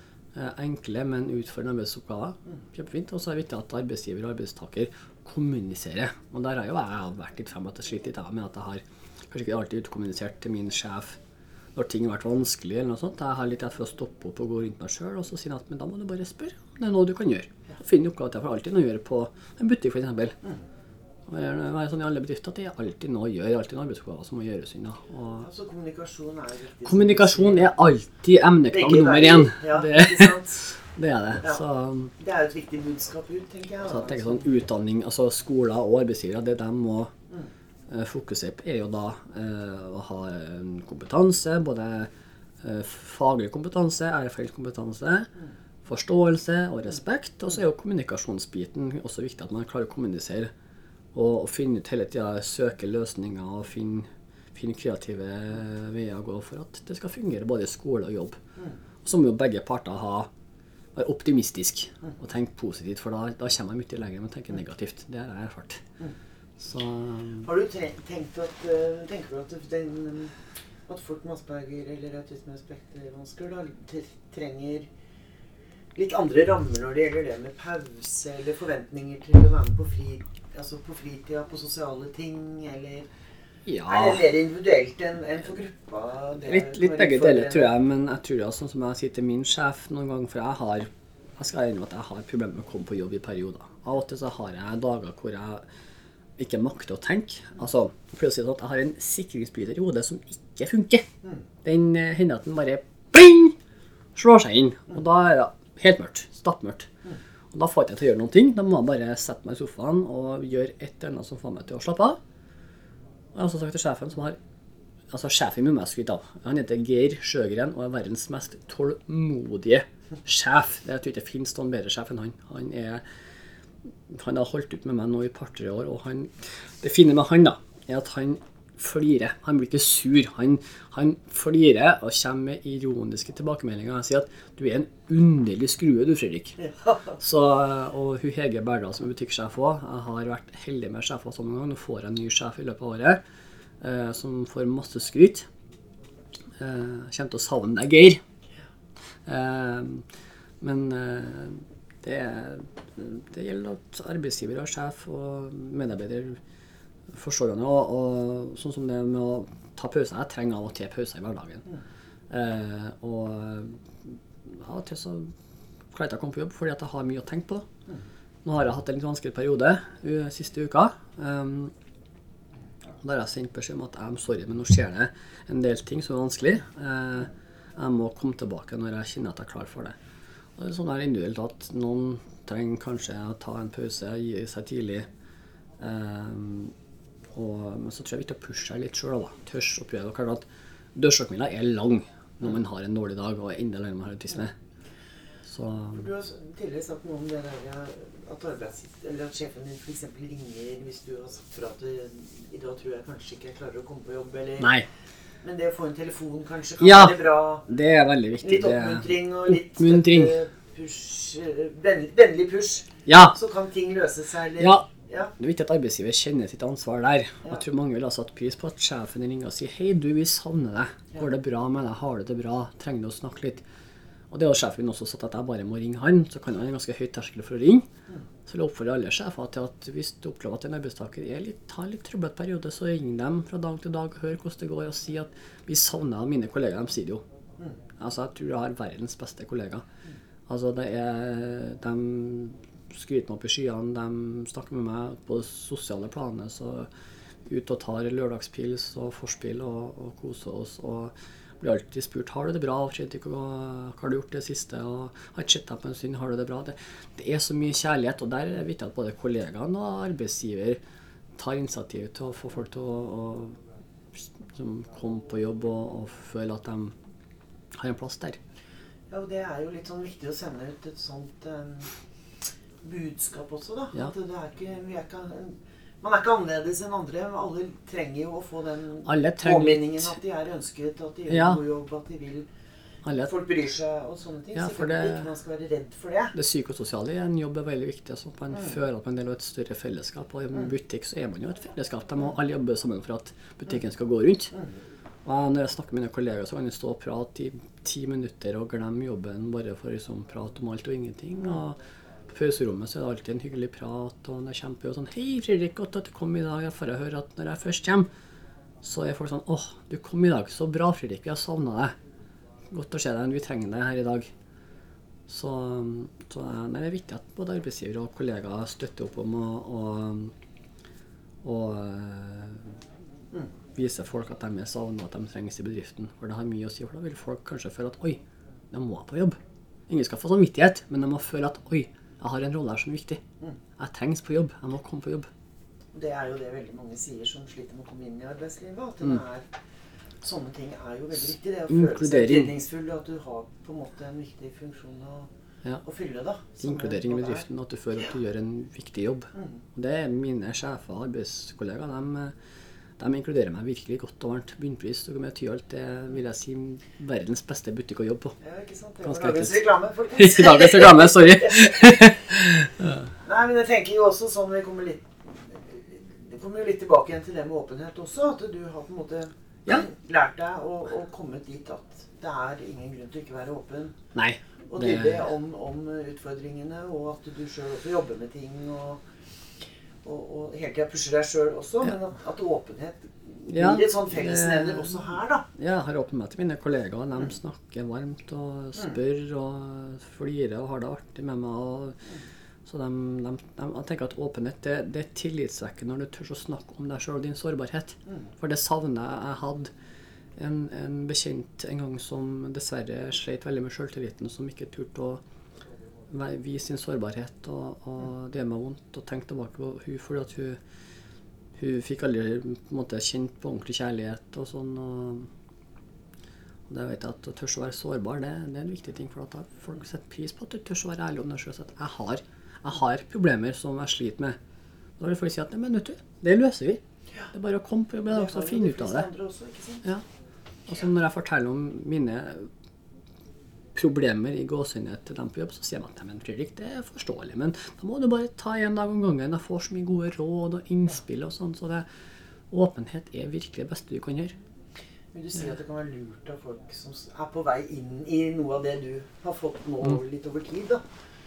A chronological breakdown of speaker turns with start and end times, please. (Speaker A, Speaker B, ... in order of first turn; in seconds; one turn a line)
Speaker A: 0.3-11.2
Speaker A: 11.7-20.4
Speaker A: 21.3-25.5
Speaker B: 25.4-27.7
Speaker A: 26.9-32.1
Speaker B: 28.7-30.6
Speaker B: 32.2-34.5
Speaker A: 33.8-37.1
Speaker A: 37.9-42.1
Speaker A: 42.6-45.3
Speaker A: 45.8-50.5
Speaker A: 51.1-58.4
Speaker A: 59.0-60.3
Speaker A: 60.9-65.8
Speaker A: 66.6-67.5
Speaker B: 67.4-70.3
Speaker B: 70.9-74.9
Speaker B: 75.9-83.1
Speaker A: 83.7-84.2
Speaker B: 83.8-87.7
Speaker A: 86.4-95.6
Speaker A: 96.4-101.0
Speaker A: 101.6-103.5
Speaker A: 104.2-106.9
Speaker A: 107.5-112.2
Speaker A: 113.3-114.4
Speaker A: 115.1-123.0
Speaker A: 124.1-136.6
Speaker B: 136.6-137.1
Speaker A: 137.2-143.2
Speaker A: 143.8-145.5
Speaker A: 146.6-148.2
Speaker A: 149.2-150.1
Speaker A: 150.6-156.4
Speaker A: 157.1-161.6
Speaker A: 162.3-165.3
Speaker A: 165.9-167.7
Speaker A: 168.4-171.7
Speaker A: 173.0-180.0
Speaker A: 180.6-185.1
Speaker A: 185.8-186.7
Speaker A: 187.3-190.4
Speaker A: 190.9-194.5
Speaker A: 195.4-196.1
Speaker B: 195.9-204.7
Speaker A: 204.6-204.9
Speaker B: 205.4-207.7
Speaker A: 206.8-210.4
Speaker B: 208.4-215.3
Speaker A: 213.1-213.3
Speaker A: 214.6-214.8
Speaker A: 215.4-223.6
Speaker A: 224.3-227.9
Speaker A: 228.4-237.2
Speaker A: 238.0-239.8
Speaker A: 240.5-246.9
Speaker A: 247.4-260.8
Speaker A: 261.4-263.6
Speaker A: 264.1-266.9
Speaker A: 267.8-268.4
Speaker B: 269.1-271.9
Speaker B: 272.8-282.5
Speaker A: 279.0-280.2
Speaker A: 281.3-281.6
Speaker A: 283.0-283.3
Speaker B: 283.2-286.3
Speaker A: 284.5-285.3
Speaker A: 286.3-294.5
Speaker A: 295.2-308.1
Speaker A: 308.8-311.9
Speaker A: 312.7-314.3
Speaker A: 315.3-320.3
Speaker A: 321.4-322.8
Speaker A: 323.7-333.2
Speaker A: 333.8-335.3
Speaker B: 335.9-339.5
Speaker B: 340.2-345.3
Speaker A: 341.7-342.5
Speaker B: 345.8-347.4
Speaker A: 346.6-352.3
Speaker A: 353.0-358.4
Speaker B: 358.4-362.1
Speaker A: 359.0-363.1
Speaker B: 363.2-374.0
Speaker A: 374.1-375.3
Speaker B: 374.7-379.0
Speaker B: 380.0-385.4
Speaker A: 383.5-385.0
Speaker A: 385.5-392.0
Speaker A: 392.6-399.7
Speaker A: 400.4-405.2
Speaker A: 406.1-410.6
Speaker A: 411.6-415.3
Speaker A: 416.7-424.4
Speaker A: 425.0-426.8
Speaker A: 427.3-429.1
Speaker B: 428.1-429.9
Speaker A: 430.7-432.5
Speaker A: 433.7-441.9
Speaker A: 442.5-444.4
Speaker B: 445.1-450.8